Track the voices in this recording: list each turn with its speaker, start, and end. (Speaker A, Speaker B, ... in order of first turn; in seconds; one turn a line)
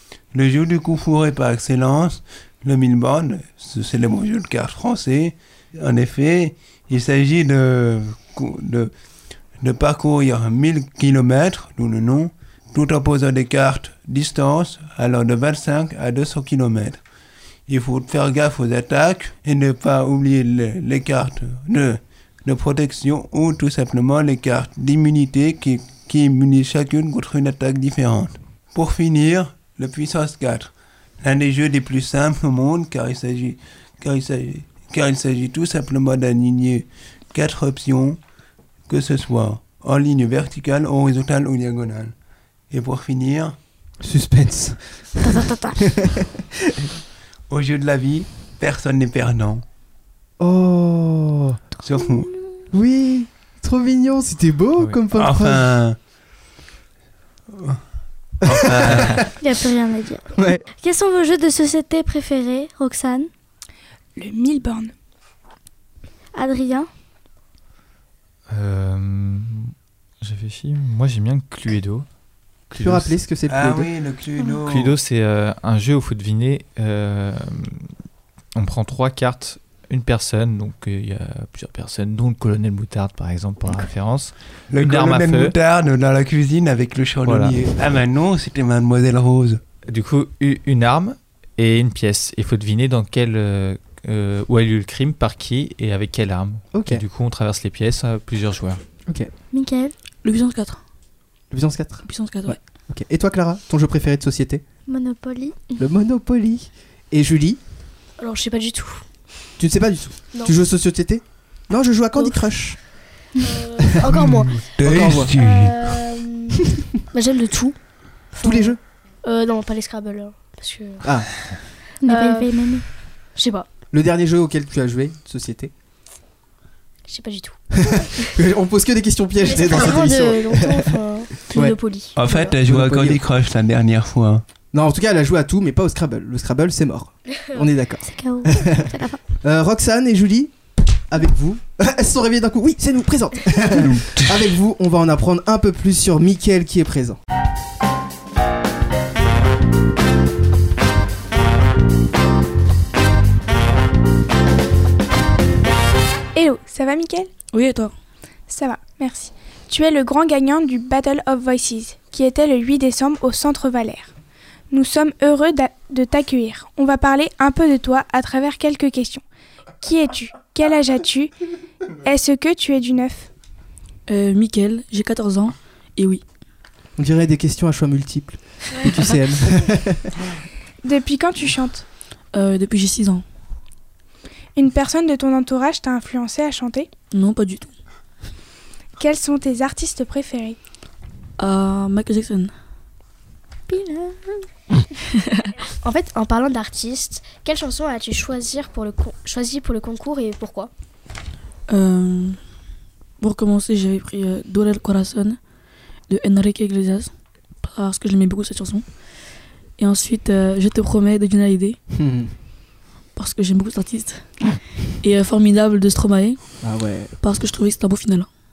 Speaker A: 0.3-8.9
Speaker A: 9.6-17.0
Speaker A: 17.7-38.2
Speaker A: 38.9-42.1
Speaker A: 42.7-43.6
Speaker B: 44.0-46.9
Speaker C: 45.2-45.8
Speaker A: 47.5-49.6
Speaker B: 50.4-51.6
Speaker A: 51.8-52.3
Speaker C: 52.0-52.3
Speaker B: 52.7-55.6
Speaker A: 55.1-56.0
Speaker A: 57.5-57.8
Speaker A: 58.4-59.2
Speaker B: 58.5-59.2
Speaker C: 59.4-60.2
Speaker B: 60.4-60.6
Speaker C: 60.8-63.3
Speaker D: 64.1-64.9
Speaker C: 66.3-66.9
Speaker E: 68.5-72.1
Speaker B: 72.7-73.9
Speaker E: 72.7-73.1
Speaker A: 73.5-75.0
Speaker E: 74.7-77.8
Speaker E: 78.5-85.5
Speaker A: 84.7-89.6
Speaker E: 87.2-87.6
Speaker E: 89.9-98.8
Speaker B: 96.7-97.0
Speaker C: 99.5-99.9
Speaker F: 100.2-100.8
Speaker B: 101.5-104.6
Speaker F: 102.1-102.6
Speaker C: 104.9-105.8
Speaker B: 105.8-107.6
Speaker G: 108.2-109.0
Speaker B: 109.6-112.8
Speaker G: 113.4-114.5
Speaker A: 114.6-115.9
Speaker B: 114.8-115.3
Speaker G: 115.3-117.8
Speaker G: 118.3-121.0
Speaker B: 118.4-118.8
Speaker B: 121.0-121.3
Speaker C: 122.0-122.8
Speaker G: 122.1-122.5
Speaker G: 123.3-123.7
Speaker B: 123.9-125.7
Speaker G: 127.1-128.2
Speaker B: 127.8-130.9
Speaker G: 129.4-132.4
Speaker B: 131.5-131.8
Speaker A: 132.2-134.4
Speaker B: 132.4-133.2
Speaker B: 134.7-138.9
Speaker C: 138.0-139.2
Speaker B: 139.4-140.5
Speaker B: 141.1-147.2
Speaker A: 143.8-144.4
Speaker D: 156.3-157.3
Speaker F: 157.5-157.9
Speaker D: 158.5-164.1
Speaker D: 164.7-169.2
Speaker D: 169.8-171.3
Speaker D: 172.0-173.3
Speaker F: 174.1-176.2
Speaker B: 177.0-180.2
Speaker D: 180.8-181.8
Speaker F: 182.3-183.2
Speaker D: 184.5-186.9
Speaker F: 187.1-187.7
Speaker D: 189.0-190.6
Speaker F: 191.4-192.5
Speaker G: 193.7-194.2
Speaker G: 195.8-200.7
Speaker F: 201.7-202.4
Speaker F: 203.2-205.4
Speaker F: 206.1-207.1
Speaker F: 207.6-208.8
Speaker F: 209.8-211.8
Speaker B: 211.9-212.3
Speaker F: 213.2-214.3
Speaker F: 215.0-216.4
Speaker B: 216.6-217.1
Speaker F: 217.2-218.3